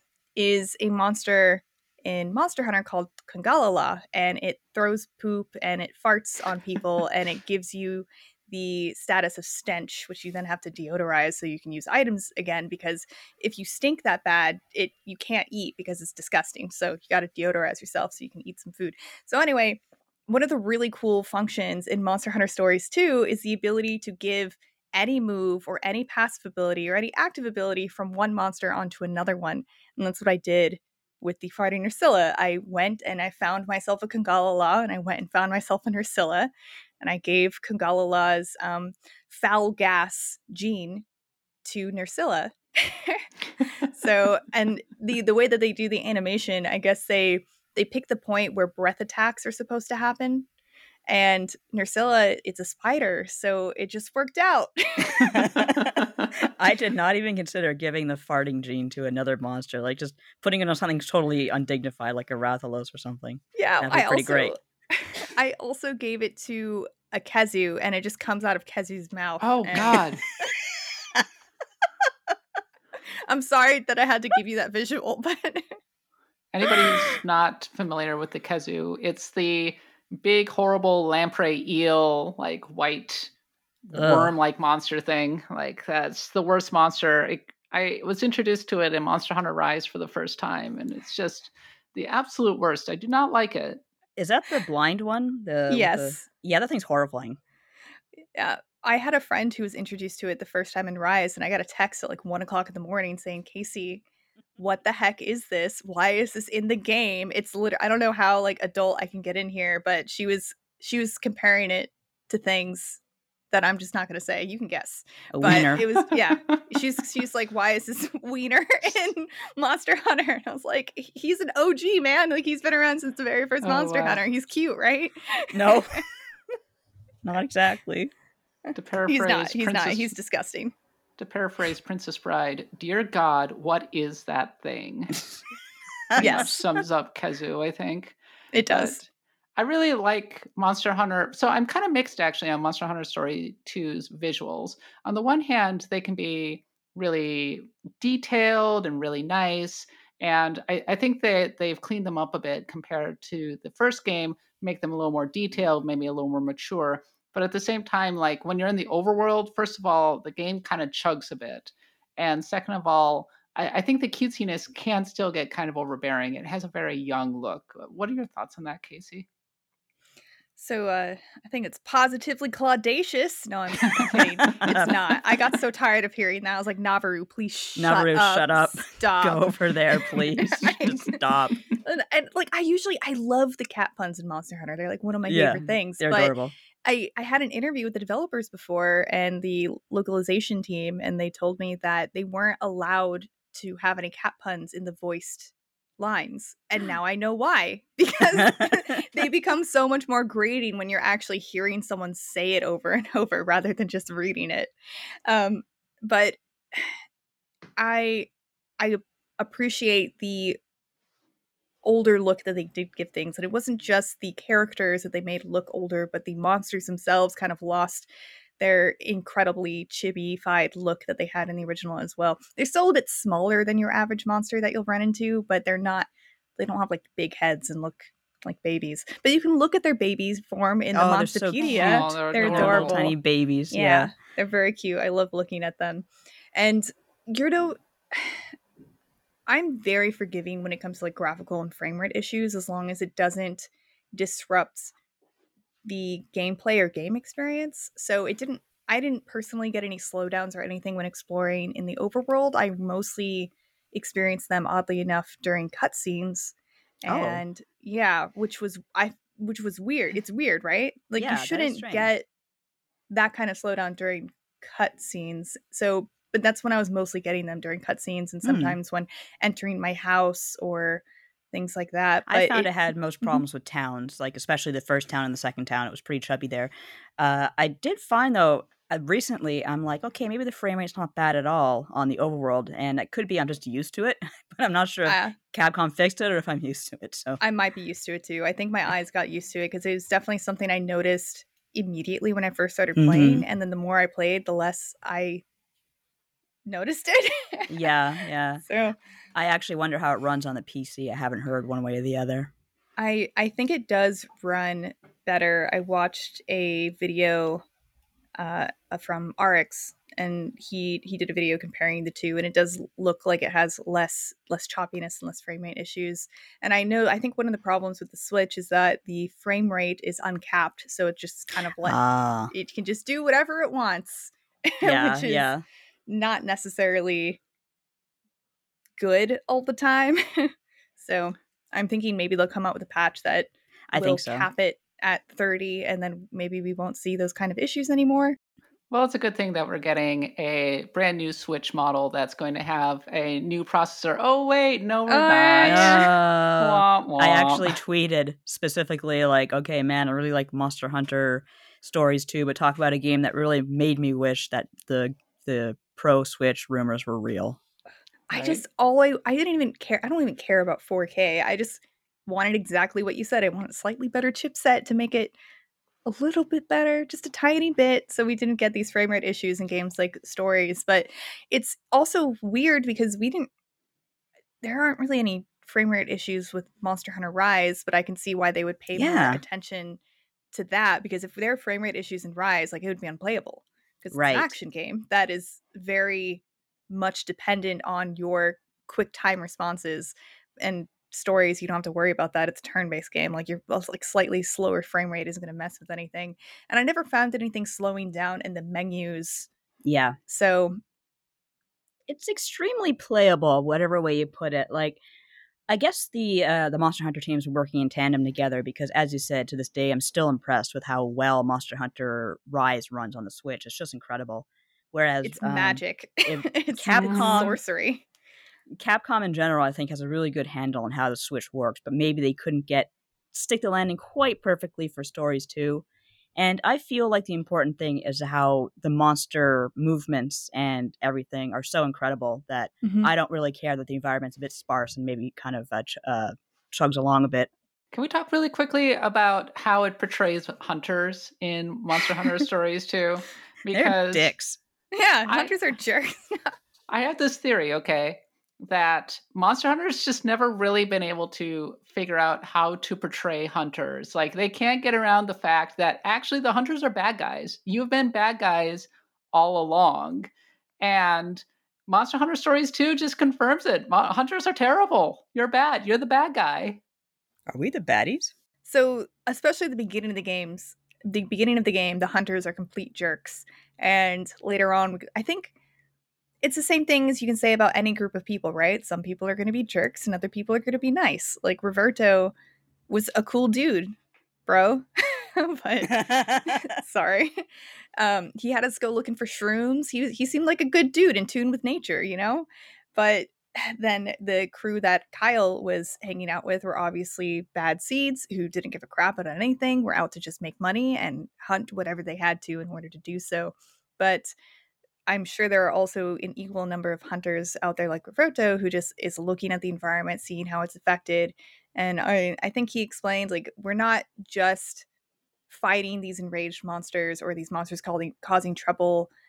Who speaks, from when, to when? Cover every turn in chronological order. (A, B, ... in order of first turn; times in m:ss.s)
0:00.4-0:41.0 A
0:41.6-0:50.4 A
0:51.1-0:55.7 A
0:55.0-1:04.5 B
0:55.8-0:56.3 C
1:03.5-1:10.0 A
1:09.4-1:10.2 C
1:13.3-1:15.7 A
1:16.5-1:23.3 C
1:23.9-1:33.8 C
1:23.9-1:24.3 B
1:34.2-1:37.4 B
1:35.7-1:36.3 A
1:38.3-1:44.0 A
1:44.6-1:53.0 A
1:53.5-2:06.0 A
1:55.3-1:55.9 B
1:55.9-1:56.6 C
2:03.6-2:04.2 C
2:05.5-2:06.0 B
2:07.2-2:08.1 B
2:08.7-2:10.1 C
2:09.1-2:10.7 A
2:11.2-2:15.2 C
2:16.1-2:16.8 B
2:16.2-2:18.2 C
2:16.2-2:16.6 A
2:18.5-2:19.0 A
2:18.7-2:49.3 C
2:50.6-3:01.2 A
2:53.8-2:54.6 C
2:54.6-2:55.0 B
2:57.8-3:01.6 B
3:01.8-3:06.3 A
3:05.2-3:06.5 B
3:06.8-3:24.7 A
3:18.4-3:19.0 B
3:25.3-3:26.9 A
3:27.8-3:30.6 A
3:31.8-3:38.1 A
3:38.6-3:53.2 A
3:50.9-3:54.1 B
3:51.6-3:53.0 C
3:53.7-3:58.5 A
3:59.5-4:04.9 A
4:05.8-4:22.2 A
4:17.1-4:17.4 B
4:21.2-4:22.1 B
4:23.1-4:32.7 A
4:28.4-4:28.8 B
4:32.3-4:47.4 B
4:45.0-4:45.4 A
4:47.4-4:55.4 A
4:53.0-4:53.4 B
4:56.7-4:57.9 A
4:57.7-4:58.6 B
4:58.7-4:59.0 A
4:59.3-5:02.5 B
5:03.0-5:07.6 A
5:08.4-5:22.0 A
5:21.8-5:22.5 B
5:22.5-5:25.5 A
5:24.8-5:25.6 B
5:26.1-5:27.4 A
5:29.0-5:38.4 A
5:33.9-5:34.5 B
5:38.9-5:47.8 C
5:45.1-5:46.1 A
5:45.6-5:57.6 B
5:58.3-6:05.3 A
5:58.3-5:58.6 C
6:06.0-6:13.5 A
6:14.6-6:20.0 A
6:18.9-6:19.4 B
6:20.5-6:39.5 A
6:24.1-6:24.5 B
6:39.8-6:40.2 B
6:40.3-6:40.8 A
6:42.1-6:45.0 B
6:45.7-6:57.6 B
6:55.2-6:58.0 A
6:56.9-6:57.5 C
6:58.8-7:05.8 B
7:06.4-7:17.5 B
7:12.8-7:13.1 A
7:17.9-7:24.3 C
7:23.7-7:24.6 B
7:24.9-7:26.5 A
7:25.2-7:25.5 C
7:26.9-7:40.3 C
7:40.8-7:46.8 C
7:47.5-7:48.3 B
7:48.6-7:55.5 A
7:56.4-8:02.3 A
8:02.9-8:03.9 A
8:04.5-8:07.4 A
8:05.8-8:06.8 B
8:08.0-8:24.3 A
8:25.1-8:34.8 A
8:35.5-8:39.1 A